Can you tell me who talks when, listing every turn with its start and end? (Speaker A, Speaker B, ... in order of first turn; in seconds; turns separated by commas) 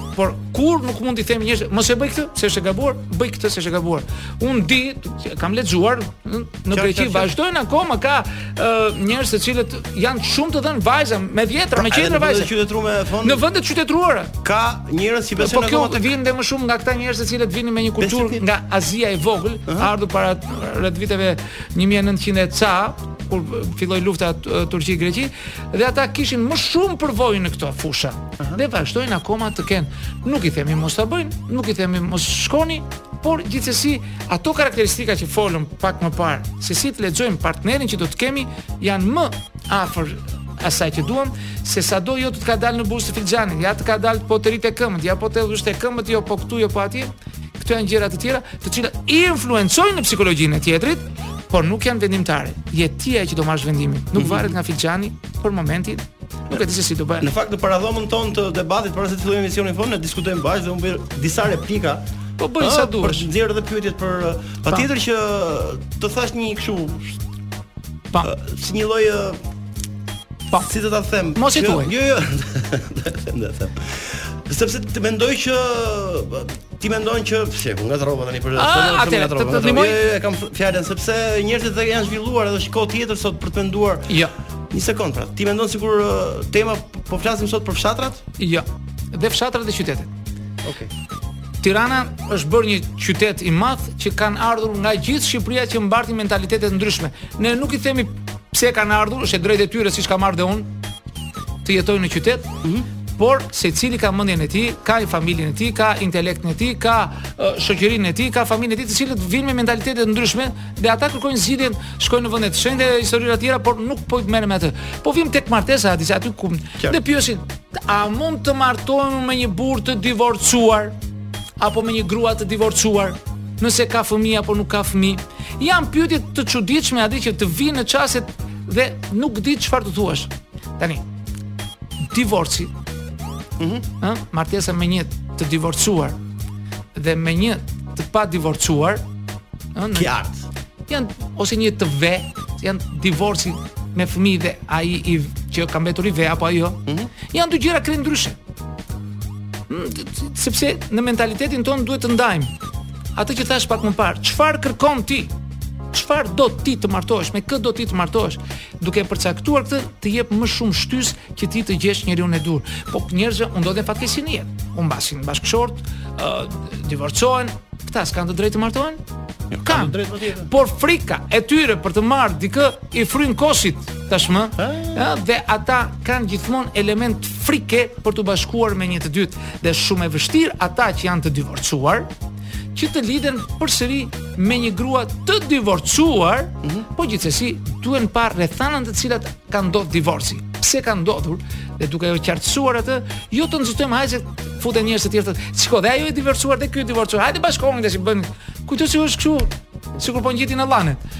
Speaker A: 0.1-12.5, Speaker B: 6.7-7.3, Speaker B: 11.7-13.4, Speaker A: 13.2-14.3, Speaker B: 14.4-16.1, Speaker A: 15.4-57.3, Speaker B: 18.0-18.4, Speaker B: 54.1-54.5, Speaker B: 57.2-62.0, Speaker A: 62.4-63.3, Speaker B: 62.6-67.2, Speaker B: 68.2-69.4, Speaker B: 70.6-84.1, Speaker A: 71.3-71.9, Speaker A: 78.5-80.0, Speaker B: 84.7-88.2, Speaker A: 88.4-90.1, Speaker B: 90.6-90.9, Speaker A: 91.6-100.7, Speaker A: 101.6-102.5, Speaker A: 103.2-121.0, Speaker A: 121.6-131.0, Speaker A: 132.1-132.7, Speaker B: 133.6-133.8, Speaker A: 134.0-136.2, Speaker A: 136.9-139.0, Speaker A: 139.7-140.1, Speaker B: 139.9-140.4, Speaker A: 140.9-148.4, Speaker A: 149.7-152.5, Speaker A: 153.2-155.3, Speaker A: 155.9-169.0, Speaker B: 169.5-170.5, Speaker A: 169.6-182.1, Speaker B: 174.6-175.1, Speaker A: 182.7-201.0